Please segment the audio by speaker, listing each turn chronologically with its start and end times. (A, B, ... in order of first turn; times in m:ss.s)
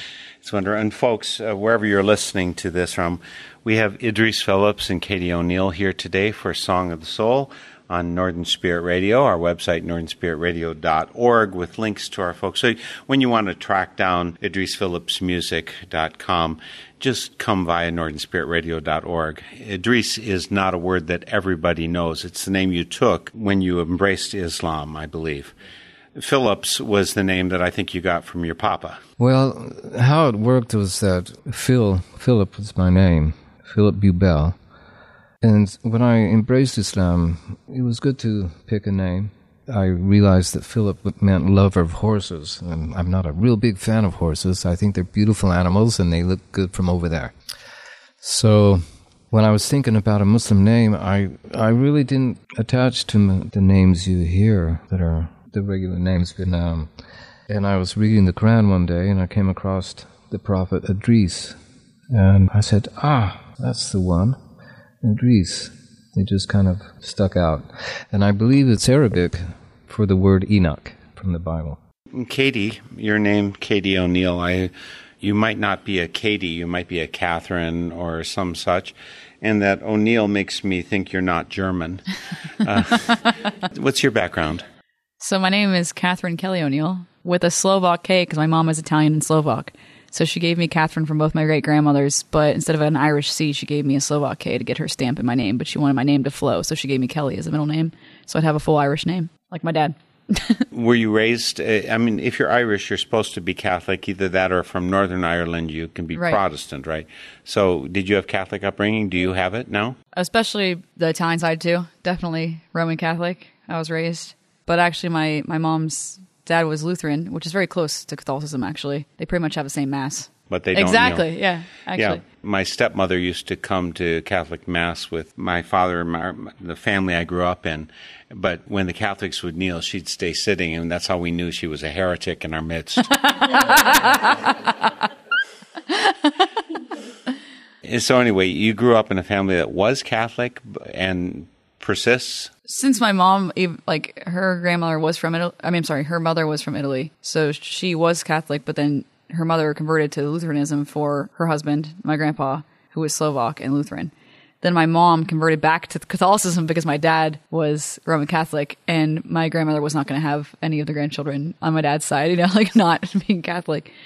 0:00.4-0:25.5 A
0:26.1-0:29.0 A
0:29.2-0:34.6 B
0:35.4-0:47.3 B
0:48.2-0:56.9 B
0:57.5-1:01.6 B
1:02.1-1:04.4 B
1:05.0-1:11.8 B
1:12.1-1:22.0 A
1:22.6-1:24.6 A
1:25.2-1:40.6 C
1:40.7-1:50.0 A
1:46.1-1:46.4 C
1:50.1-2:02.2 C
2:00.5-2:01.3 A
2:01.9-2:13.6 A
2:13.6-2:14.4 C
2:17.8-2:22.5 A
2:22.7-2:43.9 C